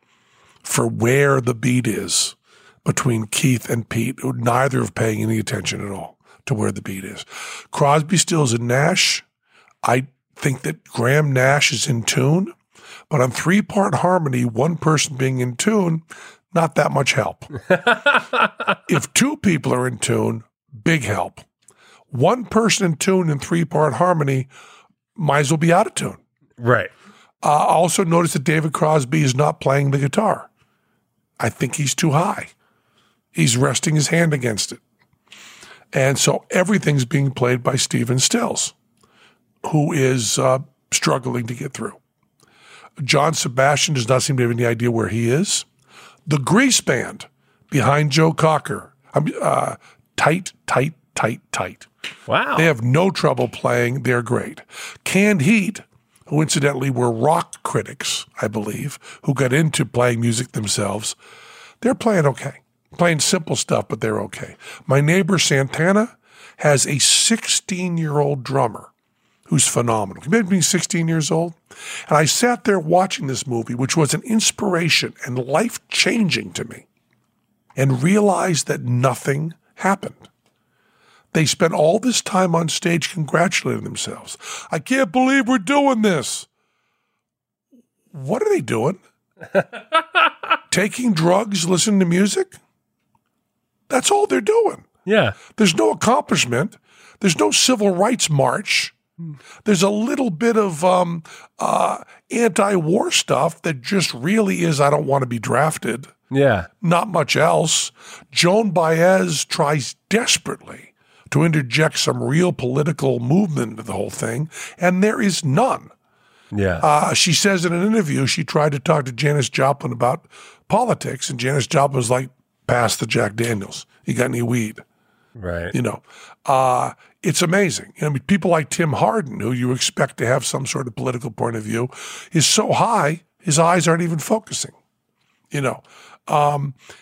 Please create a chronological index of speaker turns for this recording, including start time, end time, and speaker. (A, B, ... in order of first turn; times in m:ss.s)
0:00.6-0:09.2 A
0:09.8-0:12.5 A
0:13.1-0:17.5 A
0:17.7-0:18.8 B
0:18.9-0:21.4 A
0:22.1-0:24.5 A
0:25.2-0:26.2 A
0:26.6-0:26.9 B
0:27.4-0:30.5 A
0:31.4-0:32.5 A
0:33.3-0:34.8 A
0:35.9-0:38.7 A
0:39.6-0:42.0 A
0:43.0-0:45.6 A
0:46.2-0:51.9 A
0:52.3-0:52.7 B
0:52.6-1:01.2 A
1:01.8-1:08.9 A
1:09.5-1:16.8 A
1:17.8-1:20.3 A
1:21.3-1:26.5 A
1:28.1-1:29.0 A
1:30.7-1:32.6 A
1:33.9-1:34.9 A
1:35.0-1:35.4 B
1:35.5-1:38.9 A
1:39.6-1:46.1 A
1:46.3-1:46.7 B
1:46.8-1:55.9 A
1:56.5-1:56.8 B
1:56.8-2:04.8 A
2:05.4-2:05.7 B
2:05.7-2:14.7 A
2:15.5-2:16.8 A